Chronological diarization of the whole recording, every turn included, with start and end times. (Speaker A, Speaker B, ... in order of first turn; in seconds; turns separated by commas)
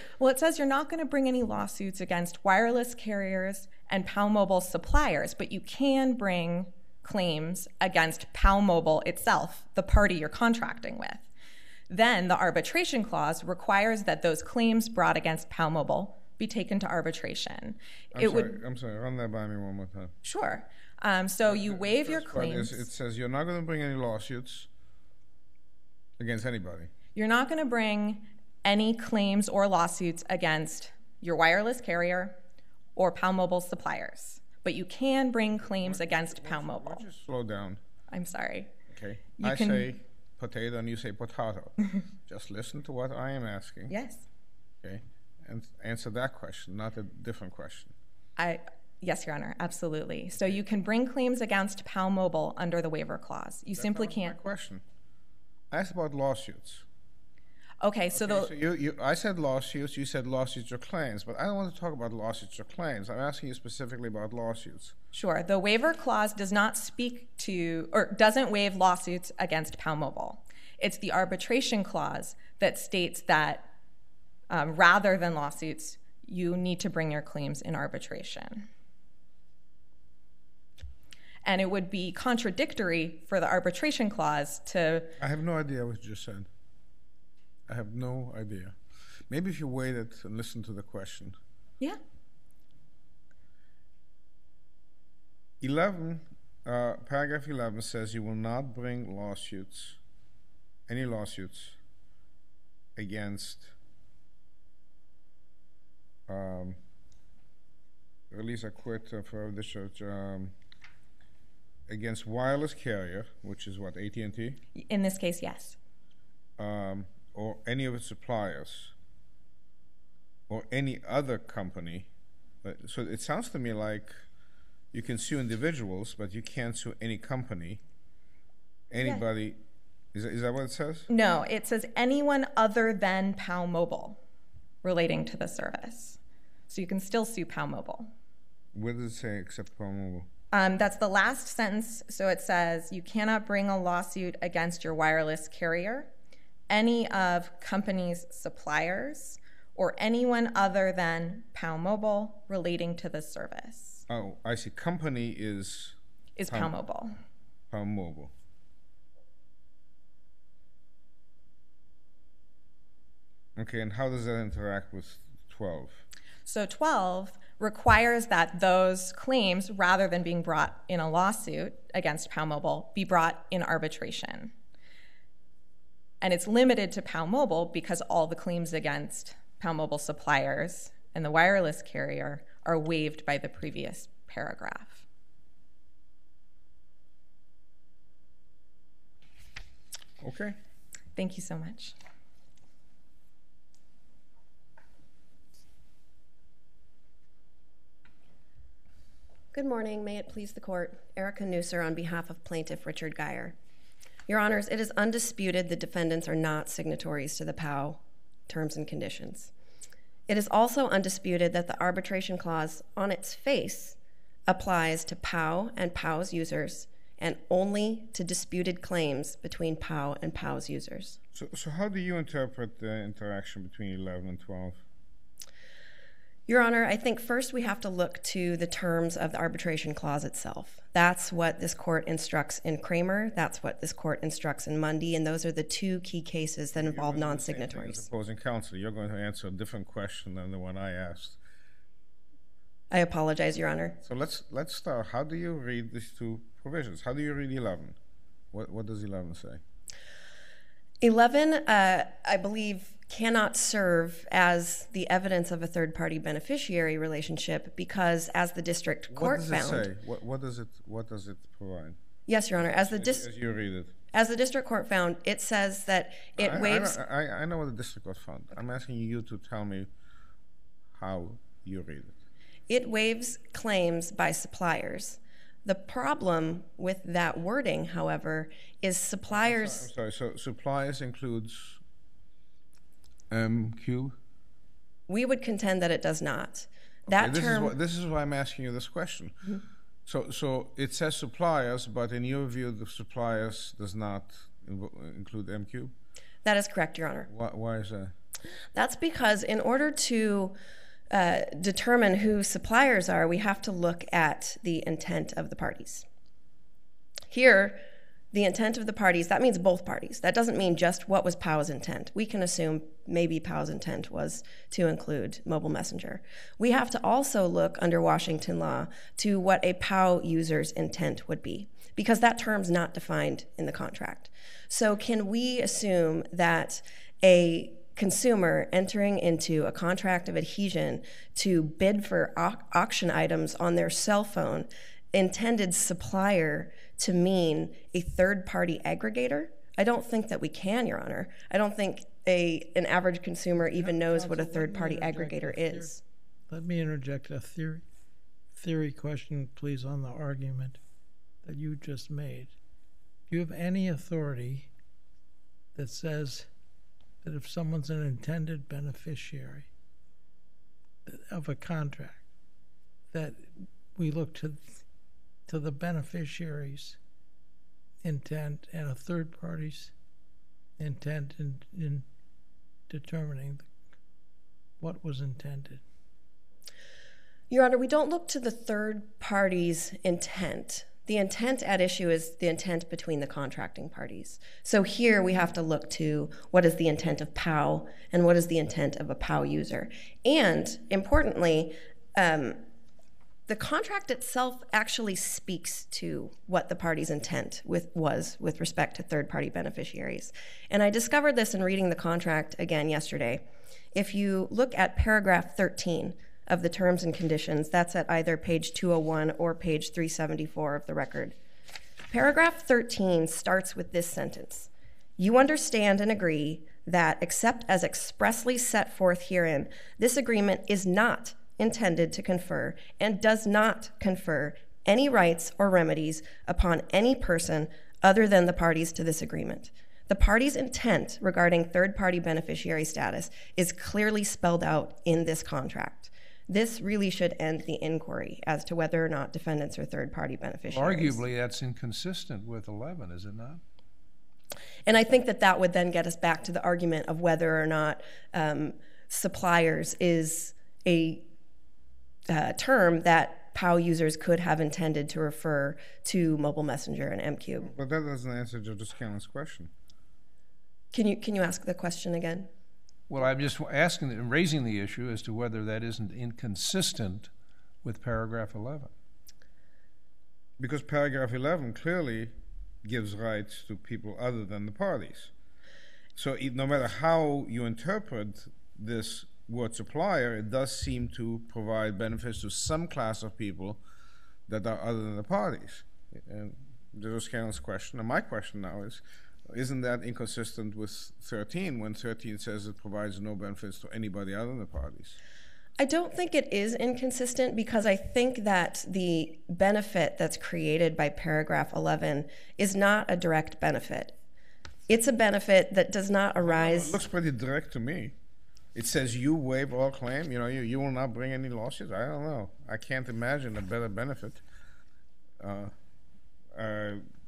Speaker A: 0.2-11.3, Speaker A: 11.9-18.6, Speaker B: 18.1-20.1, Speaker A: 20.2-22.9, Speaker B: 21.4-24.7, Speaker B: 26.2-26.9, Speaker A: 27.1-32.4, Speaker A: 33.0-37.0, Speaker B: 35.6-37.8, Speaker A: 38.1-38.7, Speaker B: 38.9-43.9, Speaker A: 39.4-39.9, Speaker A: 43.9-44.2, Speaker B: 44.8-47.9, Speaker A: 48.4-54.4, Speaker B: 53.8-54.8, Speaker B: 55.7-56.9, Speaker A: 57.8-58.5, Speaker B: 58.1-65.0, Speaker A: 65.1-73.7, Speaker A: 74.5-78.7, Speaker A: 81.5-85.2, Speaker B: 85.2-86.5, Speaker B: 87.7-88.8, Speaker B: 89.3-91.4, Speaker B: 95.6-100.0, Speaker B: 100.9-101.8, Speaker B: 103.0-103.8, Speaker B: 106.3-106.8, Speaker B: 108.3-110.5, Speaker B: 111.9-114.6, Speaker A: 114.8-115.8, Speaker B: 116.6-118.9, Speaker B: 120.5-122.1, Speaker B: 122.6-124.2, Speaker B: 124.9-127.8, Speaker B: 128.9-129.6, Speaker B: 130.1-131.1, Speaker A: 131.1-134.2, Speaker A: 134.8-138.1, Speaker B: 138.7-140.3, Speaker A: 140.5-146.1, Speaker A: 146.7-154.0, Speaker B: 154.1-156.0, Speaker A: 156.4-157.1, Speaker B: 157.7-158.3, Speaker B: 163.6-166.0, Speaker A: 166.5-174.5, Speaker A: 176.2-185.1, Speaker B: 190.2-190.6, Speaker A: 191.2-192.0, Speaker C: 199.5-203.6, Speaker C: 204.3-209.5, Speaker C: 210.3-221.2, Speaker B: 221.3-224.8, Speaker C: 226.5-238.1, Speaker B: 236.8-241.4, Speaker C: 242.9-244.0, Speaker B: 244.0-248.0, Speaker B: 248.5-249.6, Speaker C: 251.0-259.9, Speaker B: 259.1-262.0, Speaker C: 262.3-263.3, Speaker B: 262.6-263.9, Speaker C: 264.1-267.0, Speaker B: 266.4-269.9, Speaker B: 270.9-272.2, Speaker C: 272.7-279.9, Speaker B: 279.3-281.8, Speaker B: 283.3-284.2, Speaker C: 285.1-287.8, Speaker B: 287.1-295.9, Speaker C: 296.4-297.3, Speaker B: 297.3-298.1, Speaker C: 298.7-300.6, Speaker C: 301.1-306.1, Speaker C: 307.3-346.0, Speaker D: 343.8-345.9, Speaker D: 346.5-347.9, Speaker D: 348.5-350.8, Speaker D: 351.4-352.5, Speaker D: 353.3-354.7, Speaker D: 355.8-356.5, Speaker D: 357.2-359.7, Speaker D: 361.1-362.2, Speaker D: 363.1-364.8, Speaker D: 365.5-367.0, Speaker D: 368.0-369.9, Speaker D: 370.8-372.1, Speaker D: 372.9-373.7, Speaker D: 374.8-375.8, Speaker C: 377.5-392.6, Speaker C: 393.5-411.4, Speaker C: 412.1-441.2, Speaker E: 440.7-443.6, Speaker C: 444.9-451.3, Speaker C: 452.3-457.7, Speaker B: 457.6-459.7, Speaker C: 460.9-462.5, Speaker E: 463.1-467.3, Speaker E: 467.8-468.9, Speaker B: 470.6-475.3, Speaker B: 476.2-483.8, Speaker B: 484.5-495.2, Speaker C: 495.8-504.2, Speaker C: 504.9-507.0, Speaker B: 506.4-508.1, Speaker B: 508.8-514.4, Speaker B: 515.4-515.7, Speaker B: 516.5-517.0